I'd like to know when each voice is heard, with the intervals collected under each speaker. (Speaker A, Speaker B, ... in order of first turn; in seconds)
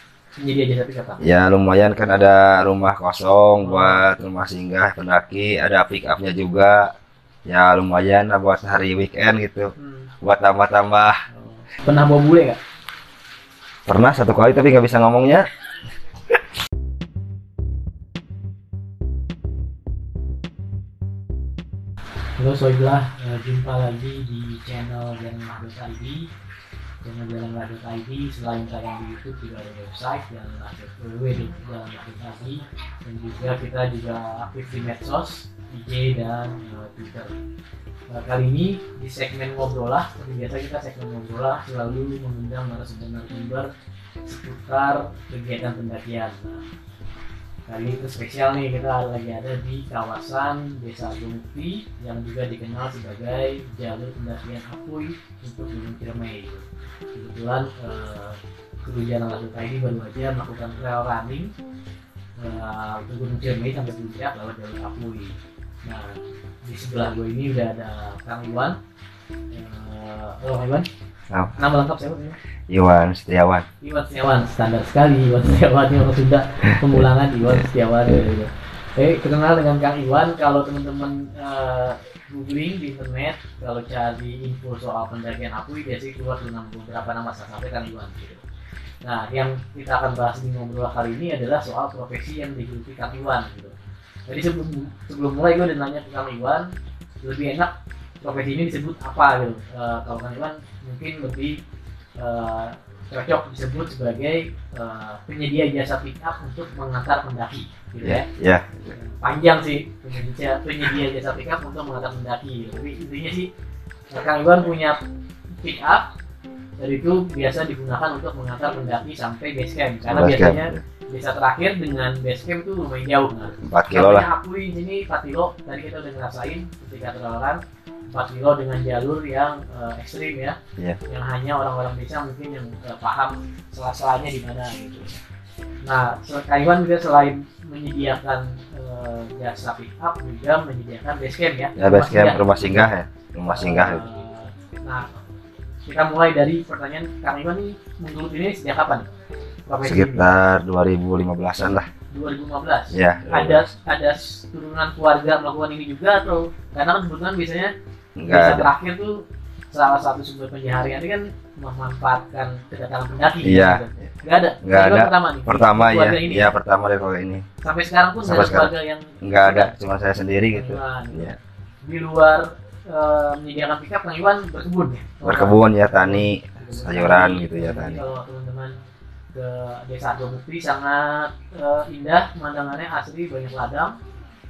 Speaker A: 0.4-1.2, 3.6-4.0, 9.8-10.1, 11.3-12.6, 22.4-26.3, 27.0-37.3, 38.1-43.7, 44.3-46.6, 47.7-61.5, 62.4-68.8, 69.5-70.9, 71.6-72.4, 73.8-88.4, 89.0-93.7, 94.3-96.7, 97.2-101.6, 102.2-108.3, 108.9-113.5, 114.1-115.0, 115.6-116.1, 116.8-135.2, 135.8-142.9, 143.5-145.1, 145.9-149.1, 149.7-150.3, 152.1-157.7, 158.3-166.5, 167.6-169.7, 170.5-178.8, 179.3-183.9
Speaker B: 1.2-6.9, 7.5-11.2, 13.9-15.5, 72.7-73.7, 76.9-77.6, 108.0-108.9, 120.1-120.8, 123.6-124.3, 141.8-144.1, 149.8-151.9, 152.9-153.7, 158.2-158.7, 163.4-163.8, 164.6-167.4, 168.2-171.4, 175.2-178.0